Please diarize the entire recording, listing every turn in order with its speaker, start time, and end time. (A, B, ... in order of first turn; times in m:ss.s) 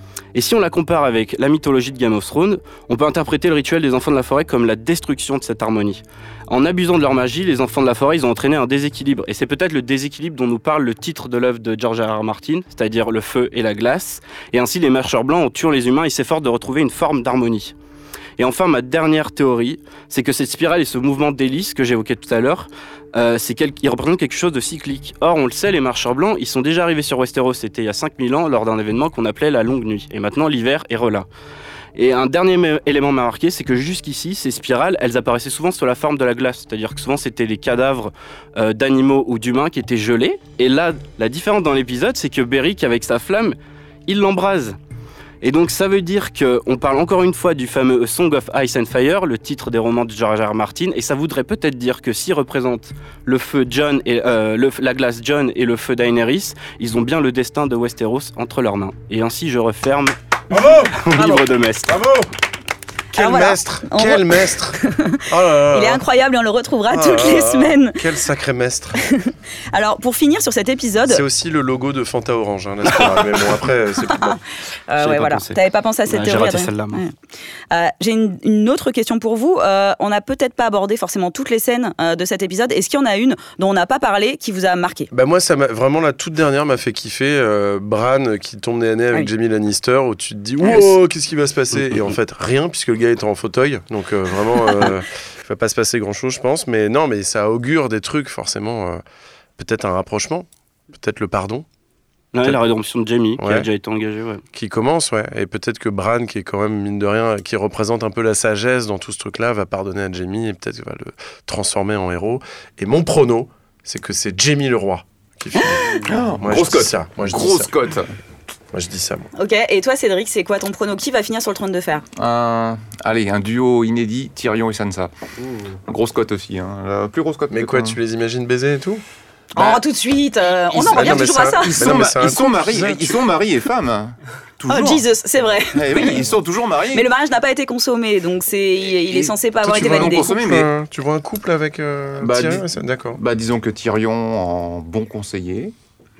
0:00.3-0:17.7 A
0:18.4-0:31.3 A
0:31.9-0:43.6 A
0:44.1-0:44.8 A
0:45.4-1:00.1 A
1:00.5-1:02.3 B
1:00.8-1:02.0 A
1:03.1-1:06.0 B
1:03.2-1:08.0 C
1:06.9-1:09.0 B
1:09.1-1:11.2 C
1:11.0-1:14.4 B
1:14.9-1:17.1 C
1:15.0-1:17.0 A
1:17.7-1:25.1 C
1:25.1-1:39.0 B
1:39.6-1:41.6 B
1:42.3-1:44.4 A
1:43.4-1:43.7 B
1:44.5-1:57.7 B
1:55.9-1:58.1 D
1:58.7-1:59.3 B
1:59.4-2:02.0 C
2:02.2-2:05.1 D
2:05.7-2:08.0 D
2:07.5-2:09.0 B
2:09.5-2:11.8 C
2:10.7-2:13.2 B
2:10.8-2:15.0 D
2:14.7-2:16.2 C
2:15.7-2:17.1 D
2:16.9-2:20.4 C
2:19.0-2:20.7 D
2:19.6-2:23.2 B
2:22.2-2:22.6 D
2:23.2-2:25.7 D